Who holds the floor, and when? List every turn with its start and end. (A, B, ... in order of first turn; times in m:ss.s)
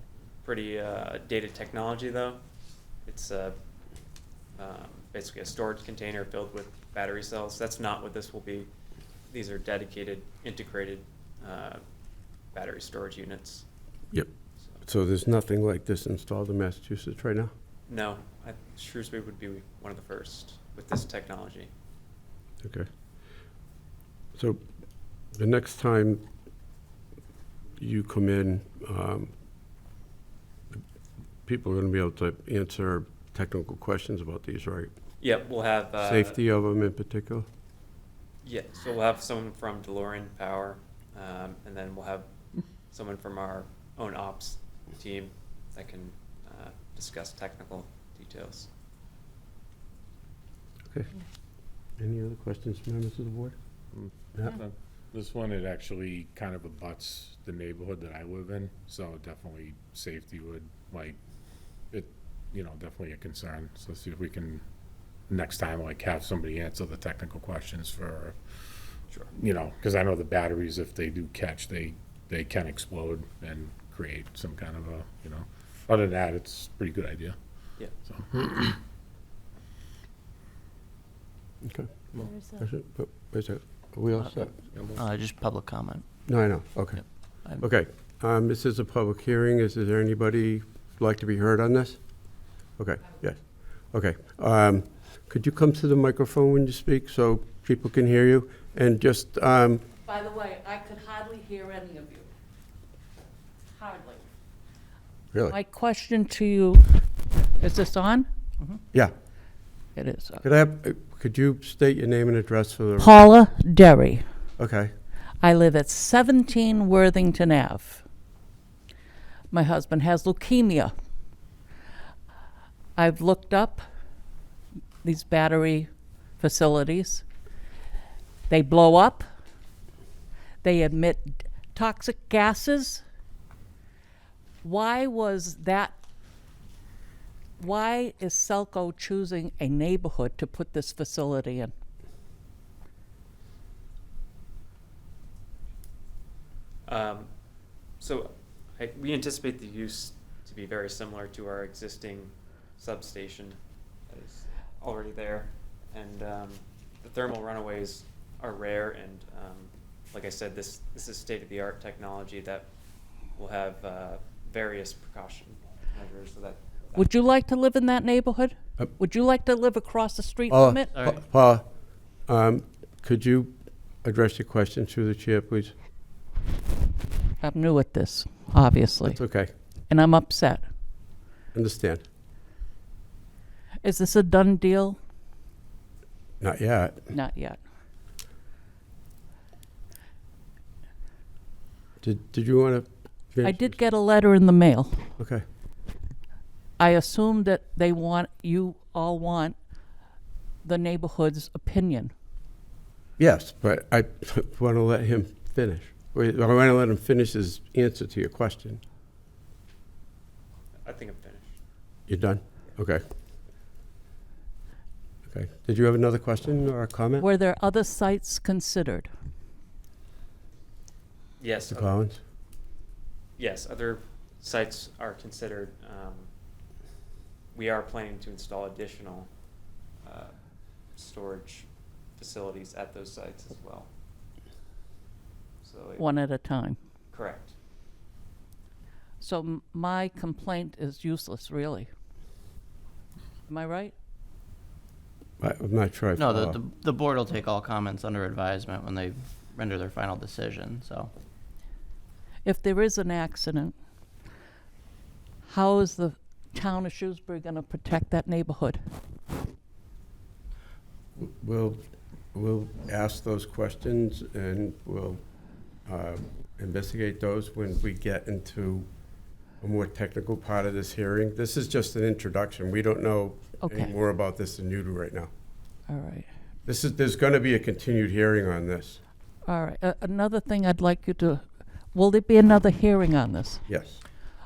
0:00.4-0:02.4 A
0:03.0-0:03.6 A
0:04.6-0:08.7 A
0:09.3-0:11.8 A
0:12.5-0:13.7 A
0:14.8-0:17.5 B
0:17.9-0:21.7 A
0:22.6-0:22.9 B
0:24.3-0:24.6 B
0:25.3-0:26.2 B
0:27.8-0:29.3 B
0:31.4-0:34.9 B
0:35.2-0:36.4 A
0:36.0-0:37.4 B
0:38.4-0:42.3 A
0:42.9-0:48.7 A
0:52.0-0:53.6 B
0:53.9-1:01.2 C
1:01.9-1:04.6 C
1:05.3-1:17.4 C
1:18.0-1:18.8 C
1:21.6-1:22.0 B
1:22.5-1:24.5 B
1:24.2-1:26.0 D
1:24.7-1:25.0 C
1:26.3-1:39.8 B
1:27.0-1:27.6 D
1:40.0-1:42.3 E
1:43.8-1:44.2 E
1:45.3-1:45.6 B
1:45.5-1:48.3 E
1:50.0-1:50.4 E
1:50.4-1:53.2 B
1:53.0-1:54.2 E
1:54.6-1:54.9 B
1:55.4-1:58.0 E
1:59.5-2:00.9 E
2:03.0-2:03.8 E
2:05.0-2:05.9 E
2:06.4-2:07.2 E
2:08.5-2:09.2 E
2:10.6-2:13.0 E
2:14.6-2:16.0 E
2:17.6-2:21.7 E
2:26.8-2:27.3 A
2:28.0-2:42.7 A
2:43.4-2:47.1 A
2:47.0-2:50.9 E
2:50.5-2:51.6 B
2:50.9-2:51.2 D
2:52.2-2:55.7 B
2:57.4-2:59.2 E
2:59.0-2:59.5 B
2:59.9-3:00.7 E
3:01.5-3:02.0 B
3:03.8-3:05.0 E
3:06.4-3:07.1 B
3:07.1-3:07.6 E
3:12.0-3:13.8 B
3:13.4-3:15.0 E
3:15.2-3:15.4 B
3:16.8-3:19.6 E
3:20.6-3:22.1 E
3:23.2-3:28.8 B
3:30.8-3:31.6 A
3:32.1-3:33.0 B
3:35.3-3:37.2 B
3:37.2-3:39.1 E
3:41.4-3:41.9 A
3:41.7-3:42.2 B
3:43.4-3:46.3 A
3:47.5-3:49.3 A
3:50.0-3:50.3 A
3:50.9-3:53.9 A
3:55.6-3:56.0 A
3:56.0-3:56.8 E
3:57.1-3:57.5 A
3:59.2-4:01.9 E
4:03.5-4:03.9 E
4:05.4-4:06.6 B
4:06.2-4:11.1 D
4:12.4-4:13.8 E
4:15.4-4:18.8 E
4:21.2-4:25.2 B
4:25.8-4:28.9 B
4:29.6-4:35.3 B
4:33.6-4:33.9 E
4:35.9-4:36.3 E
4:36.6-4:39.0 B
4:39.4-4:43.6 E
4:43.7-4:44.0 B